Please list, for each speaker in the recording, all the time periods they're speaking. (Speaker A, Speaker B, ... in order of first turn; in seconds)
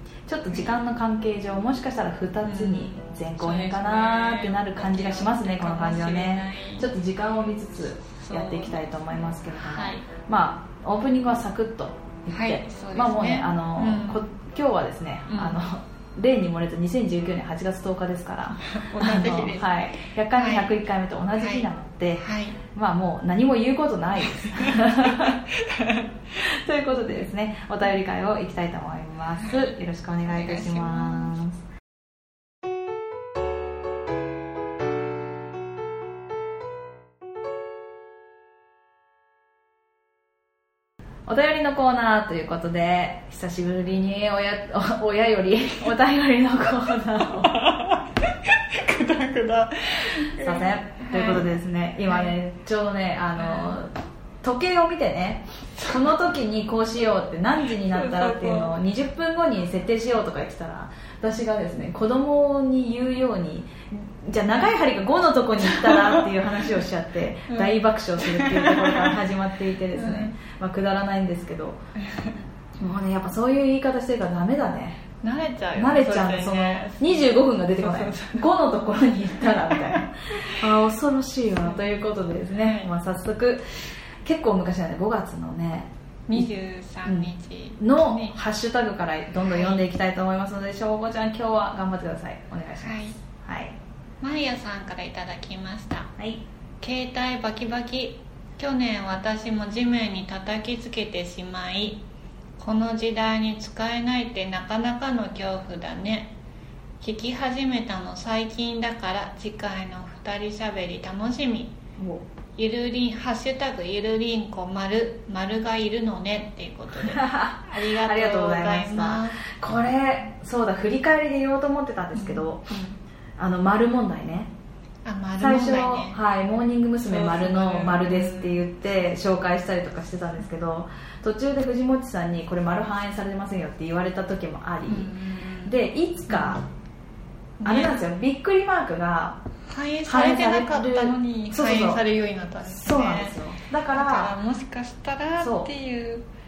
Speaker A: 0.3-25.4, 26.4-31.6, 41.3-47.6, 50.4-71.8, 72.8-75.0, 75.8-83.6, 84.2-86.5, 87.0-93.8, 96.2-96.4, 112.0-112.2, 117.0-122.7, 123.4-124.5, 125.4-135.1, 135.7-136.7, 137.6-139.4, 140.1-142.0, 142.6-144.4, 145.4-145.7
Speaker B: 2.4-6.9, 8.2-8.8, 9.6-10.1, 12.3-14.2, 15.3-15.6, 18.6-20.8, 21.4-21.7, 22.2-22.6, 24.2-26.2, 29.4-31.4, 47.4-51.5, 52.1-52.3, 53.4-53.8, 55.8-56.1, 57.8-58.8, 65.6-66.7, 67.5-69.2, 69.9-70.3, 72.0-72.4, 75.2-78.6, 79.4-80.7, 81.6-81.8, 82.5-82.9, 86.3-88.4, 89.4-89.8, 92.8-93.2, 94.2-96.1, 96.8-102.0, 102.6-106.3, 107.0-111.8, 112.6-119.4, 122.2-123.0, 125.0-126.2, 127.0-128.6, 134.9-135.7, 136.3-136.6, 137.6-138.0, 139.7-143.4, 143.9-146.3